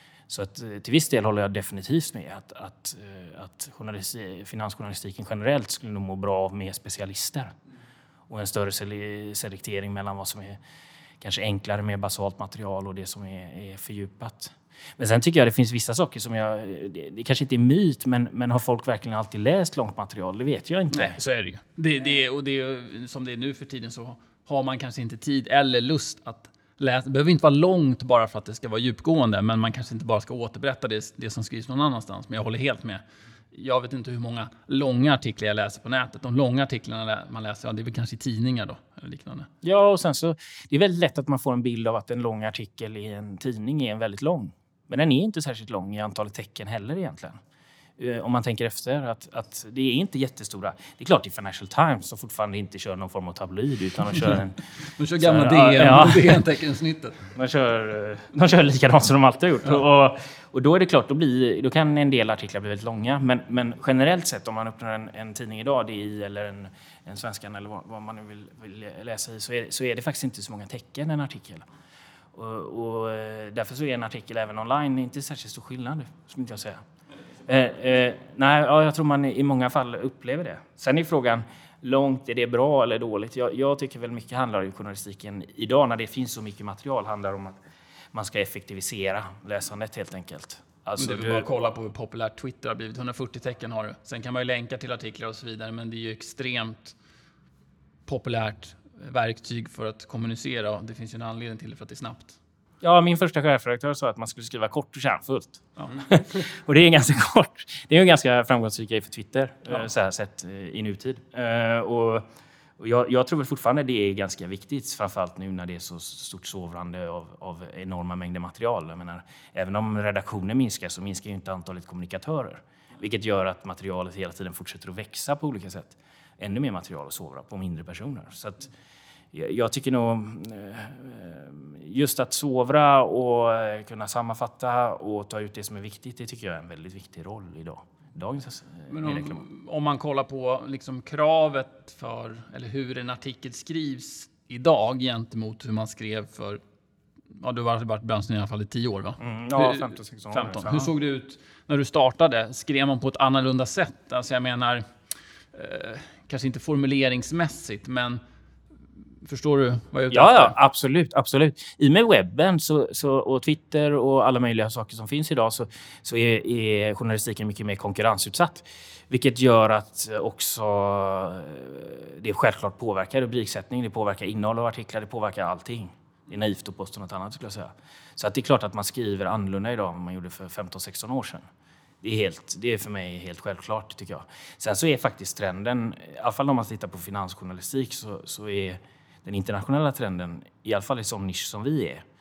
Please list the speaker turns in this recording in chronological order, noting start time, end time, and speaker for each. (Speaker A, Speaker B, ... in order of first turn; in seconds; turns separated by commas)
Speaker A: 0.3-7.5, Speaker A: 8.3-10.6, Speaker A: 11.2-21.2, Speaker B: 20.9-39.5, Speaker A: 39.6-47.4, Speaker A: 48.0-54.6, Speaker B: 55.0-57.3, Speaker A: 55.2-56.4, Speaker A: 57.3-71.7, Speaker A: 72.3-76.8, Speaker A: 77.5-87.6, Speaker A: 88.1-91.5, Speaker B: 91.0-97.0, Speaker B: 98.0-102.3, Speaker A: 102.8-112.2, Speaker A: 112.8-128.7, Speaker A: 129.3-139.4, Speaker B: 138.9-146.6, Speaker B: 147.4-154.9, Speaker A: 149.2-150.9, Speaker B: 155.5-158.2, Speaker B: 159.2-160.5, Speaker A: 160.1-181.4, Speaker A: 182.0-192.0